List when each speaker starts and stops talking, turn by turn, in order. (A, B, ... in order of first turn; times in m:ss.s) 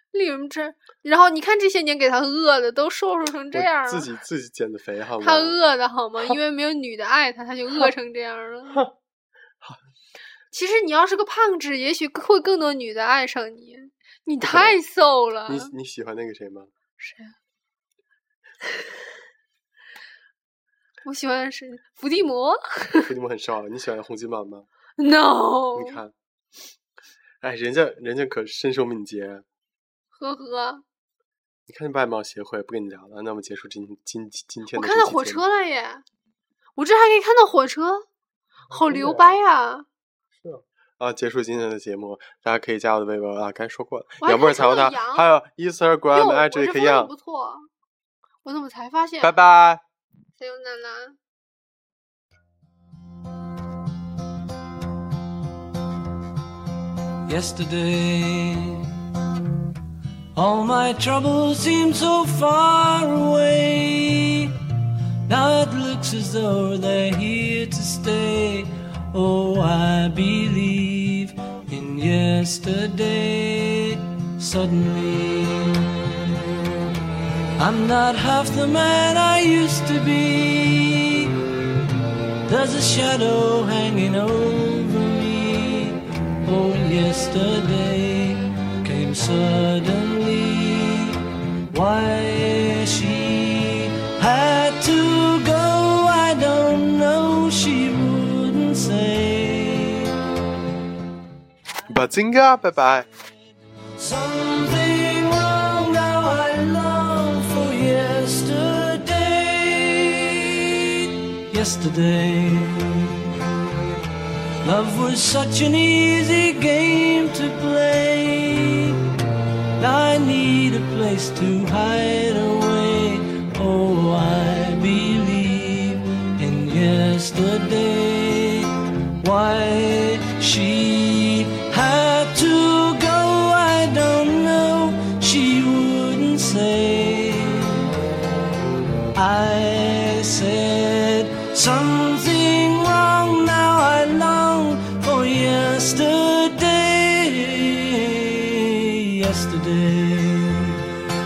0:00.1-0:04.1 A
0:03.5-0:05.6 B
0:05.2-0:08.8 A
0:10.5-0:15.7 A
0:14.5-0:14.8 B
0:15.5-0:16.7 B
0:17.0-0:17.3 A
0:21.0-0:23.1 A
0:23.1-0:24.7 B
0:25.0-0:26.0 A
0:25.7-0:26.1 B
0:27.4-0:29.4 B
0:30.1-0:30.8 A
0:31.7-0:35.4 B
0:34.7-0:36.0 A
0:36.8-0:38.1 A
0:38.7-0:39.4 B
0:38.7-0:39.9 A
0:40.3-0:47.1 B
0:44.2-0:45.3 A
0:46.1-0:47.7 A
0:48.4-0:49.4 A
0:49.2-0:49.8 B
0:50.4-0:51.2 A
0:57.3-0:59.0 C
1:00.3-1:04.6 C
1:05.3-1:16.0 C
1:17.6-1:21.4 C
1:22.4-1:40.1 C
1:41.9-1:43.1 B
1:44.0-1:53.3 C
1:54.6-1:59.0 C
1:59.8-2:17.9 C
2:19.1-2:30.8 C